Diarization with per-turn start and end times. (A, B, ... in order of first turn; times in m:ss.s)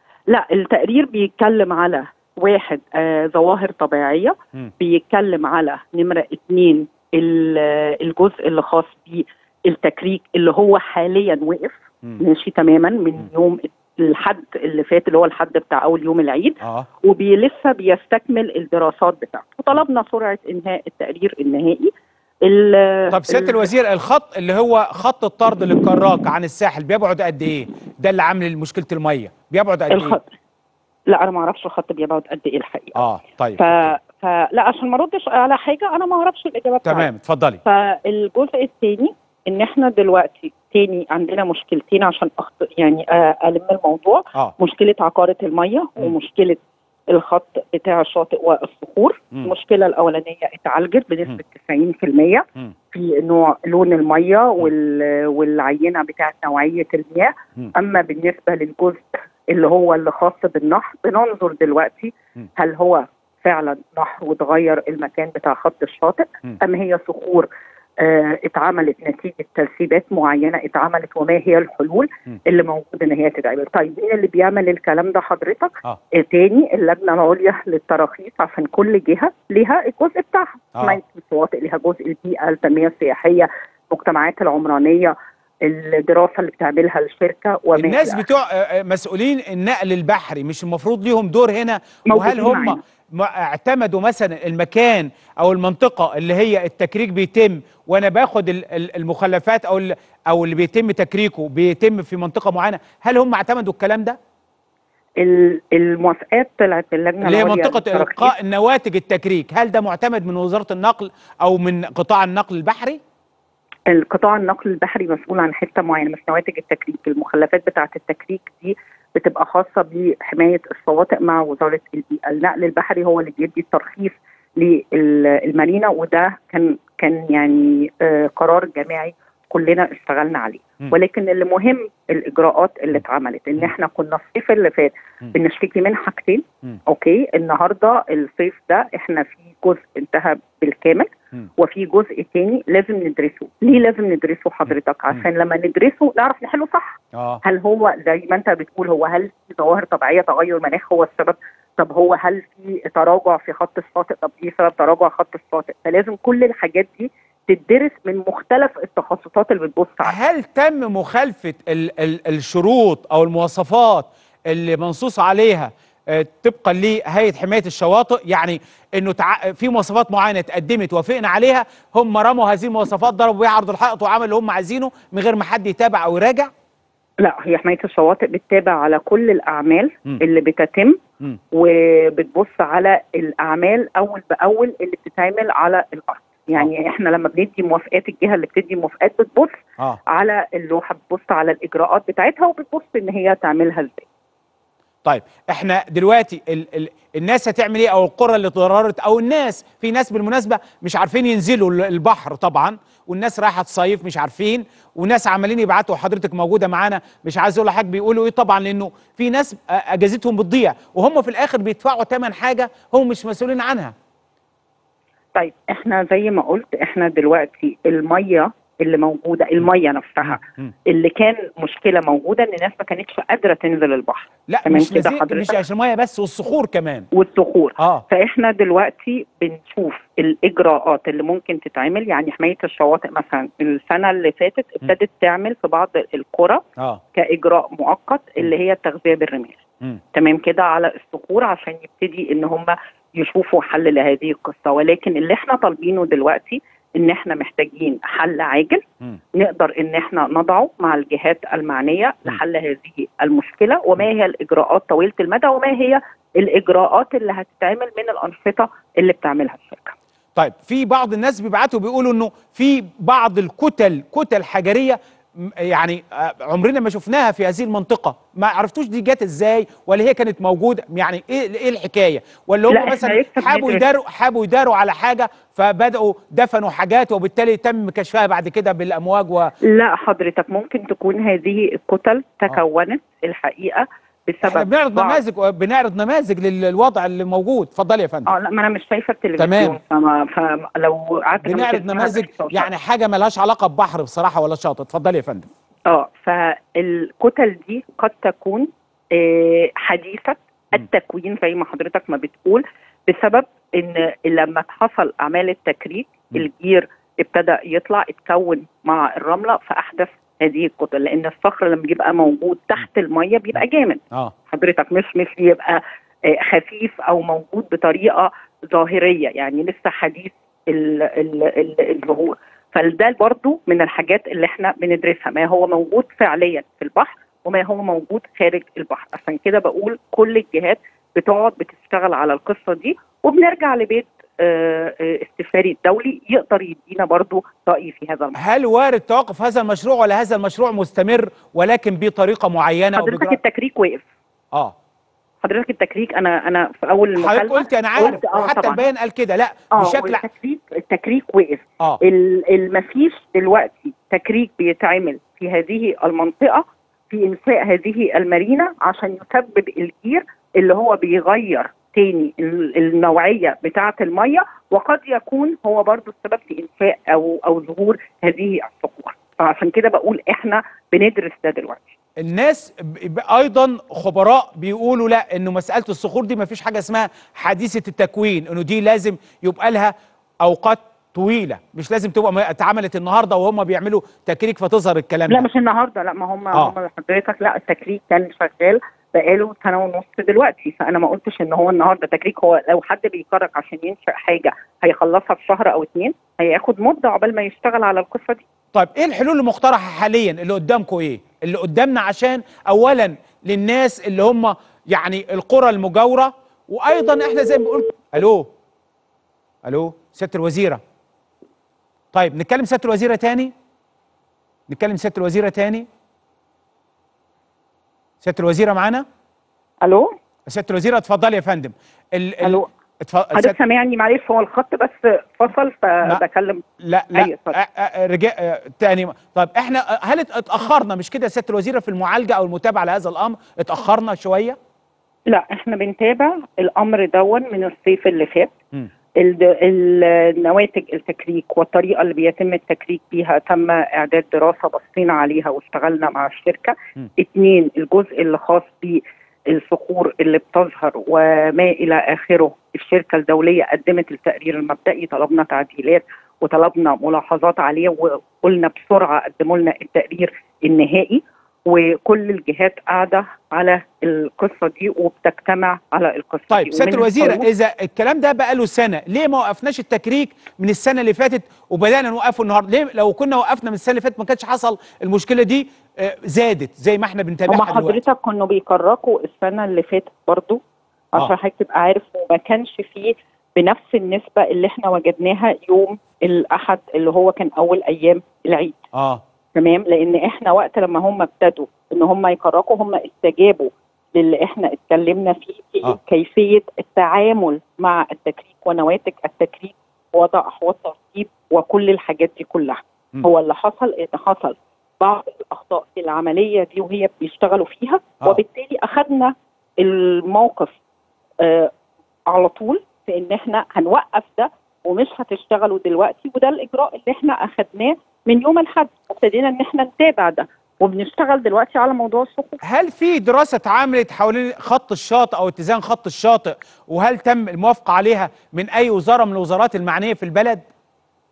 0:00.3-0:21.9 A
0:16.6-0:16.9 B
0:22.4-0:23.6 A
0:23.1-0:30.2 B
0:29.9-0:30.3 A
0:31.1-0:33.0 A
0:33.0-0:34.0 B
0:33.6-0:37.1 A
0:36.8-0:37.6 B
0:37.6-1:28.2 A
1:27.8-1:44.2 B
1:32.1-1:32.8 A
1:45.2-1:48.3 A
1:47.2-1:53.0 B
1:53.9-2:40.2 A
2:27.1-2:27.4 B
2:40.0-2:56.5 B
2:57.2-3:01.0 A
3:01.5-3:14.1 A
3:15.0-3:33.9 B
3:35.4-3:45.6 A
3:40.2-3:40.7 B
3:44.5-3:47.1 B
3:47.1-3:59.6 A
3:47.8-3:48.0 B
4:00.1-4:08.8 A
4:09.3-4:20.0 A
4:20.4-4:39.6 B
4:32.7-4:33.8 A
4:39.6-4:45.2 A
4:44.4-4:48.3 B
4:48.3-4:52.7 A
4:49.4-4:49.8 B
4:51.4-4:55.5 B
4:55.9-5:38.4 A
5:38.4-5:43.4 B
5:43.0-5:44.1 A
5:45.4-5:48.8 A
5:47.2-5:50.2 B
5:49.7-6:11.9 A
6:12.2-6:25.5 B
6:25.3-6:38.4 A
6:38.7-6:48.5 B
6:49.6-6:50.8 B
6:52.1-6:53.5 B
6:54.7-6:55.9 B
6:58.2-6:59.0 B
6:59.8-7:00.1 A
7:00.5-7:03.6 B
7:02.4-7:02.7 A
7:03.3-7:07.6 A
7:06.8-7:14.6 B
7:15.3-7:18.5 A
7:19.2-7:47.5 A
7:46.5-7:58.0 B
7:57.5-8:00.6 A
8:01.2-8:08.8 A
8:08.9-8:09.2 B
8:09.6-8:30.8 A
8:31.4-8:31.7 A
8:32.3-8:42.6 A
8:42.6-8:50.7 B